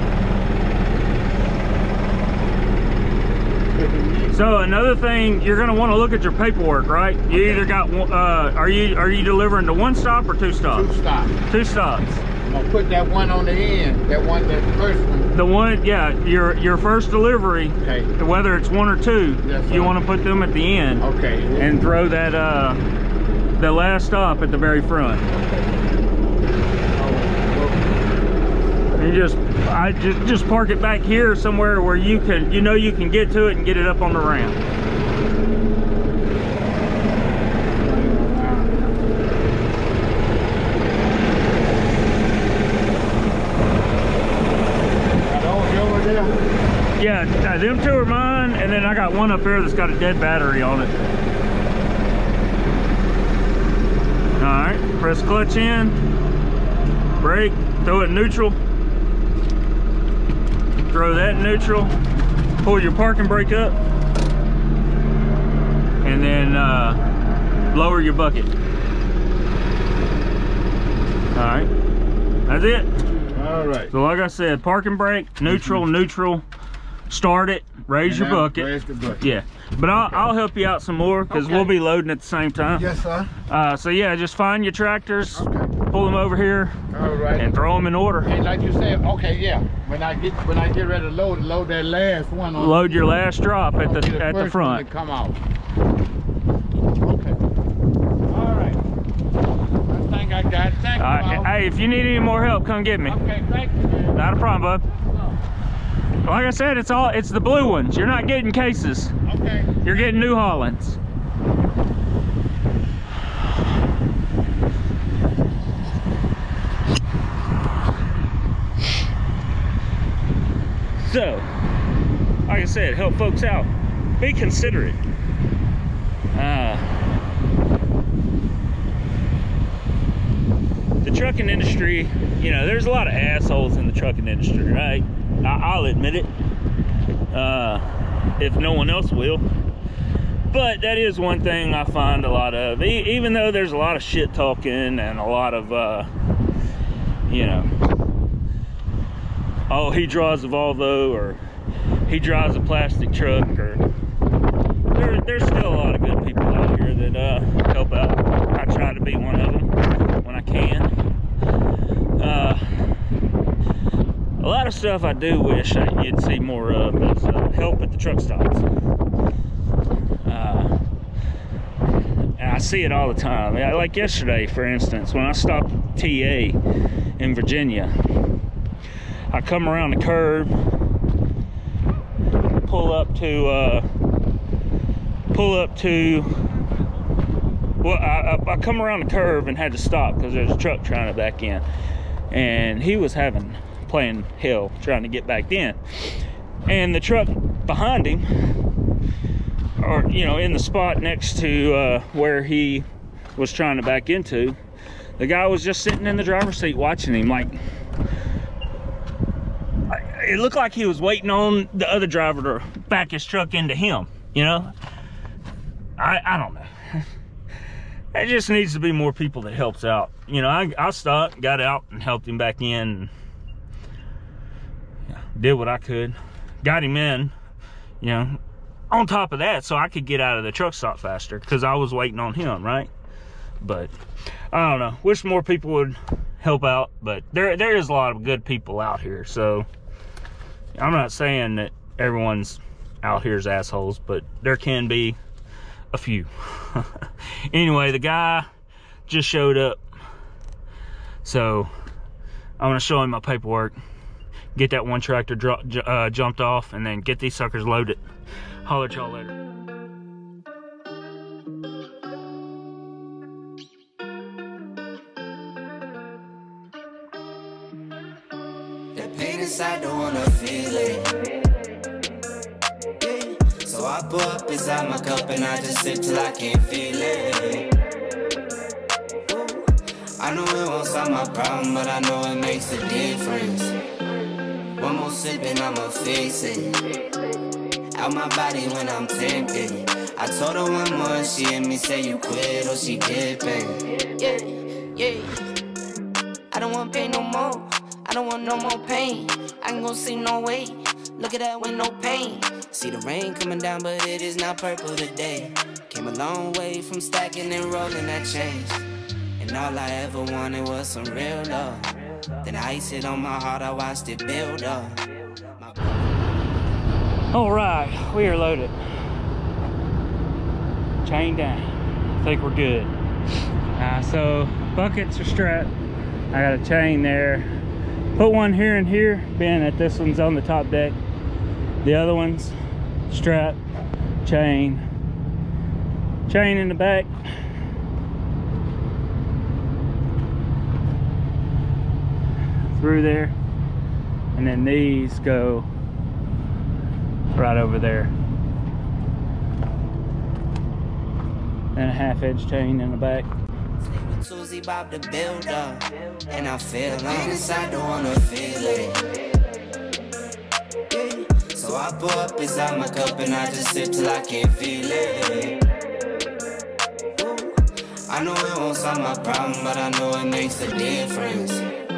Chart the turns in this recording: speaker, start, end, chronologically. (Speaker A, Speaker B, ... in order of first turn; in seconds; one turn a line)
Speaker A: 3.7-4.4
Speaker B: 4.3-10.9
Speaker A: 7.3-7.7
Speaker A: 10.7-11.3
Speaker B: 11.5-12.2
Speaker A: 12.4-15.3
Speaker B: 15.3-21.0
Speaker A: 17.8-18.1
Speaker A: 19.4-19.9
Speaker A: 21.0-21.7
Speaker B: 21.6-22.8
Speaker B: 23.6-25.3
Speaker A: 26.9-28.0
Speaker B: 28.9-34.6
Speaker A: 37.7-38.9
Speaker A: 45.2-46.4
Speaker B: 47.0-50.9
Speaker B: 54.4-56.0
Speaker B: 57.2-58.6
Speaker B: 60.9-61.9
Speaker B: 62.6-63.8
Speaker B: 66.0-67.0
Speaker B: 67.7-68.5
Speaker B: 71.3-71.7
Speaker B: 72.5-72.9
Speaker A: 73.3-73.9
Speaker B: 73.9-76.4
Speaker A: 75.5-75.8
Speaker B: 77.1-82.9
Speaker A: 78.0-79.2
Speaker A: 81.3-81.7
Speaker A: 82.7-83.3
Speaker B: 83.5-86.8
Speaker A: 85.3-85.7
Speaker A: 86.9-87.6
Speaker B: 87.4-88.3
Speaker A: 88.2-93.0
Speaker B: 92.5-94.8
Speaker A: 93.8-95.4
Speaker A: 97.0-97.4
Speaker A: 98.3-98.8
Speaker A: 99.9-101.5
Speaker B: 101.0-103.2
Speaker A: 103.0-104.2
Speaker B: 104.1-104.8
Speaker A: 104.9-105.4
Speaker B: 106.2-109.1
Speaker A: 109.2-110.3
Speaker B: 109.8-111.0
Speaker B: 121.0-121.5
Speaker B: 122.5-125.0
Speaker B: 126.3-126.8
Speaker B: 131.0-136.3
Speaker B: 137.3-137.8
Speaker B: 138.4-139.4
Speaker B: 140.5-146.1
Speaker B: 147.3-147.7
Speaker B: 149.7-151.4
Speaker B: 152.1-153.8
Speaker B: 154.9-160.9
Speaker B: 162.2-162.6
Speaker B: 164.4-168.6
Speaker B: 170.2-170.7
Speaker B: 172.4-176.6
Speaker B: 177.2-177.9
Speaker B: 179.3-180.5
Speaker B: 182.7-183.9
Speaker B: 185.3-186.3
Speaker B: 187.8-191.6
Speaker B: 192.3-196.1
Speaker B: 196.7-198.2
Speaker B: 199.8-204.6
Speaker B: 205.2-207.6
Speaker B: 209.9-214.7
Speaker B: 216.0-217.1
Speaker B: 218.1-223.1
Speaker B: 225.1-227.3
Speaker B: 228.0-232.9
Speaker B: 233.6-233.9
Speaker B: 234.5-239.7
Speaker B: 240.8-245.2
Speaker B: 245.9-248.5
Speaker B: 249.1-249.8
Speaker B: 251.2-251.7
Speaker B: 252.6-253.8
Speaker B: 254.5-258.0
Speaker B: 258.6-259.3
Speaker C: 268.9-271.3
Speaker C: 273.0-277.7
Speaker C: 279.3-279.7
Speaker C: 280.2-283.7
Speaker C: 284.8-287.0
Speaker C: 287.9-295.4
Speaker C: 296.5-308.9
Speaker C: 309.4-315.0
Speaker C: 315.6-315.9
Speaker B: 317.3-318.8
Speaker B: 321.0-321.6
Speaker B: 322.2-322.9
Speaker B: 323.8-325.7
Speaker B: 326.3-327.5
Speaker B: 328.1-331.0
Speaker B: 331.8-332.6
Speaker B: 333.1-333.6
Speaker B: 334.2-334.8
Speaker B: 336.3-337.1
Speaker B: 342.7-343.3
Speaker B: 344.3-345.7
Speaker B: 347.3-348.1
Speaker B: 351.7-353.3
Speaker C: 353.8-359.0
Speaker C: 360.9-365.6
Speaker C: 367.2-367.6
Speaker C: 368.1-371.6